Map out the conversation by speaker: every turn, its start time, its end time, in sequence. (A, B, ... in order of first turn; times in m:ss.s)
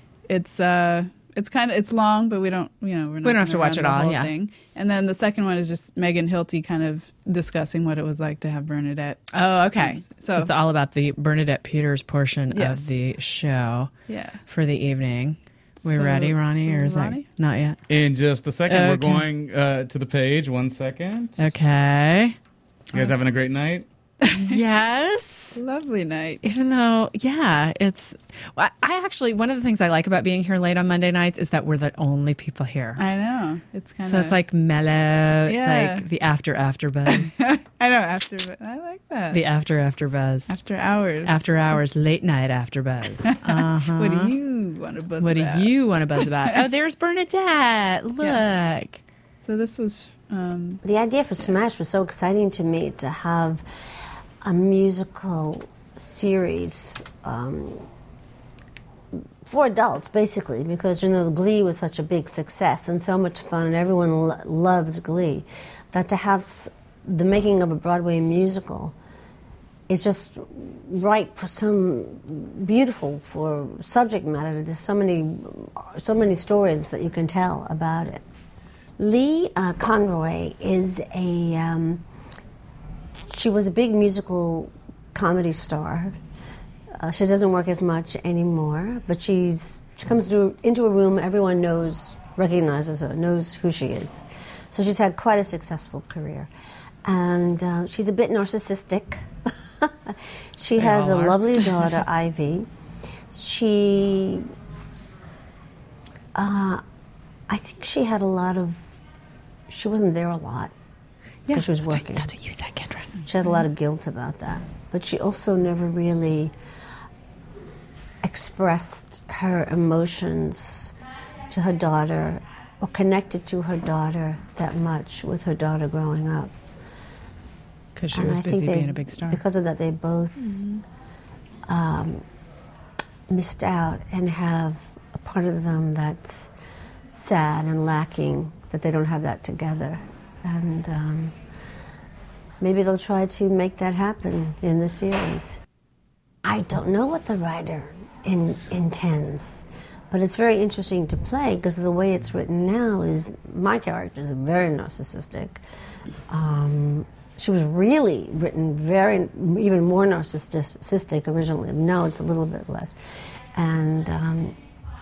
0:00.3-0:10.5 A
0:03.2-0:04.3 B
0:09.3-0:13.9 B
0:12.5-0:13.1 A
0:14.1-0:14.4 A
0:14.5-0:17.8 B
0:15.8-0:17.2 A
0:17.9-0:21.5 C
0:18.7-0:19.2 B
0:21.4-0:22.4 B
0:22.9-0:23.9 C
0:22.9-0:23.2 A
0:24.2-0:24.6 A
0:24.4-0:25.6 B
0:25.5-0:26.5 A
0:26.4-0:33.0 B
0:33.0-0:34.4 A
0:34.0-0:37.4 B
0:35.4-0:36.0 A
0:37.1-0:39.4 A
0:39.3-0:40.5 B
0:40.5-0:41.8 A
0:41.2-0:44.3 B
0:43.2-0:46.6 A
0:45.2-0:49.0 B
0:49.4-0:50.8 A
0:50.8-0:53.6 D
0:54.4-0:57.9 D
0:59.4-1:08.9 D
1:09.9-1:18.2 D
1:19.0-1:22.0 D
1:23.3-1:26.2 D
1:27.0-1:36.5 D
1:37.0-1:42.7 D
1:40.8-1:41.7 B
1:43.3-1:44.5 D
1:46.3-1:46.8 D
1:47.5-1:48.8 D
1:49.7-1:50.7 D
1:51.5-1:53.1 B
1:51.5-1:52.3 D
1:53.2-1:56.5 D
1:58.2-2:00.9 D
2:01.5-2:06.5 D
2:08.0-2:09.4 B
2:08.1-2:10.6 D
2:10.4-2:10.8 A
2:11.7-2:12.2 D
2:13.3-2:16.5 D
2:17.1-2:21.3 D
2:22.6-2:25.6 D
2:26.4-2:35.6 D
2:36.3-2:43.0 D
2:43.5-2:44.6 D